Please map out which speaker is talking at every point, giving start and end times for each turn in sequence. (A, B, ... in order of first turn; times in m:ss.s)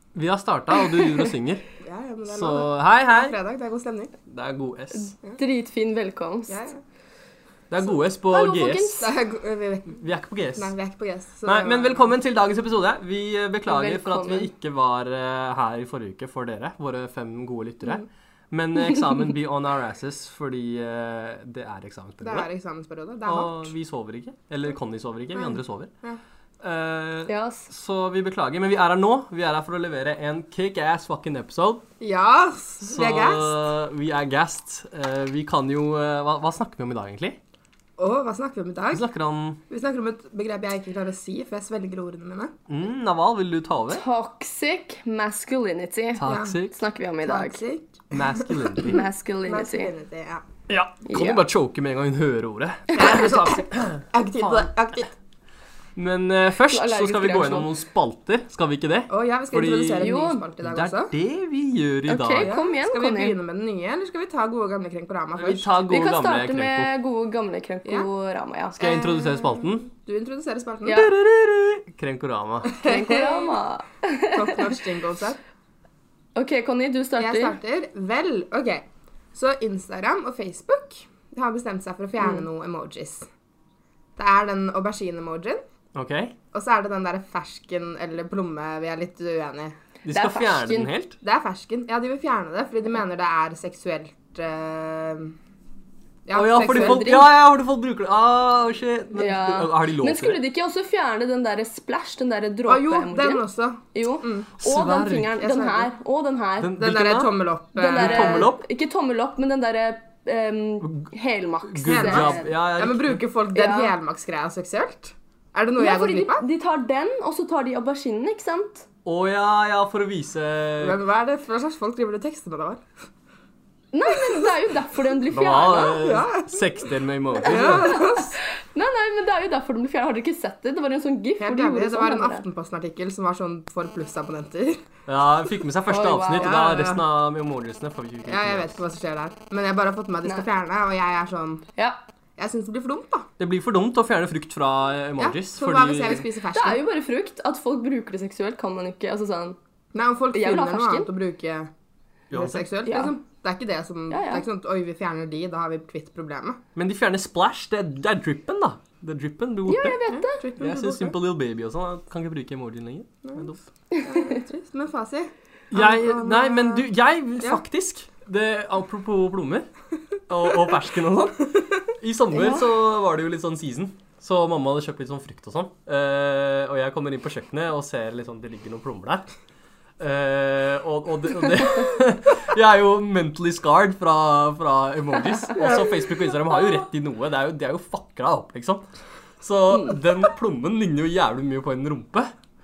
0:00.1-0:01.6 A
0:00.8-0:01.3 B
0:01.8-0:04.1 C
0:02.3-0:03.4 A
0:04.3-0:05.1 A
0:05.1-0:06.6 B
0:06.5-0:06.8 C
0:07.7-0:09.0 A
0:08.3-0:09.1 B
0:09.0-0:10.0 C
0:09.9-0:10.7 A
0:10.6-0:12.1 C
0:11.4-0:22.5 A
0:13.7-0:14.5 B
0:22.2-0:23.7 C
0:23.2-0:25.9 A
0:25.3-0:26.2 C
0:26.6-0:31.8 A
0:27.3-0:27.7 B
0:32.0-0:33.5 C
0:32.8-0:37.4 A
0:38.0-0:39.0 C
0:38.9-0:39.6 A
0:39.7-0:42.5 C
0:42.7-0:44.0 A
0:43.9-0:47.6 B
0:46.2-0:46.8 A
0:46.2-0:46.5 C
0:47.2-0:50.4 C
0:48.1-0:49.0 A
0:48.8-0:49.9 B
0:50.7-0:54.6 A
0:51.0-0:51.4 B
0:52.9-0:55.1 C
0:56.0-1:00.1 A
0:56.7-0:57.7 B
0:59.1-1:01.1 C
1:00.0-1:00.4 B
1:00.6-1:02.5 A
1:02.1-1:03.4 B
1:02.4-1:05.7 C
1:05.4-1:06.9 A
1:05.9-1:08.8 B
1:08.8-1:11.0 C
1:08.8-1:09.9 A
1:10.9-1:12.8 A
1:12.6-1:13.5 C
1:12.8-1:14.8 B
1:14.3-1:15.4 C
1:16.3-1:17.6 B
1:17.2-1:23.3 C
1:22.2-1:22.4 B
1:24.2-1:25.6 C
1:25.9-1:26.3 A
1:26.5-1:29.8 C
1:30.0-1:31.2 A
1:30.1-1:30.9 B
1:31.2-1:35.3 C
1:36.2-1:37.2 C
1:36.3-1:40.4 A
1:36.6-1:37.3 B
1:39.1-1:43.4 B
1:42.7-1:44.5 C
1:43.9-1:46.8 B
1:44.6-1:45.3 A
1:45.4-1:45.9 C
1:46.6-1:47.3 A
1:46.7-1:48.5 C
1:47.8-1:52.5 B
1:47.9-1:48.6 A
1:51.7-1:53.2 A
1:51.8-1:56.4 C
1:53.5-1:53.9 B
1:55.8-1:58.8 B
1:59.0-2:01.0 A
2:00.8-2:02.8 C
2:03.9-2:06.1 B
2:05.3-2:08.2 A
2:06.0-2:06.5 C
2:07.4-2:08.3 C
2:07.5-2:12.4 B
2:11.4-2:14.8 C
2:15.1-2:18.7 A
2:15.9-2:16.5 B
2:16.4-2:17.0 C
2:18.2-2:21.6 C
2:22.4-2:23.3 C
2:23.4-2:26.2 A
2:25.2-2:26.8 C
2:26.5-2:29.6 B
2:29.9-2:31.7 C
2:30.3-2:31.1 B
2:32.3-2:32.7 A
2:32.3-2:36.6 C
2:32.8-2:33.1 B
2:34.1-2:34.4 B
2:36.7-2:40.0 A
2:39.7-2:40.4 B
2:40.1-2:41.2 C
2:40.6-2:43.6 A
2:43.2-2:46.9 C
2:43.9-2:44.2 B
2:45.7-2:49.7 A
2:50.3-2:59.3 A
3:00.0-3:08.9 A
3:09.4-3:12.3 A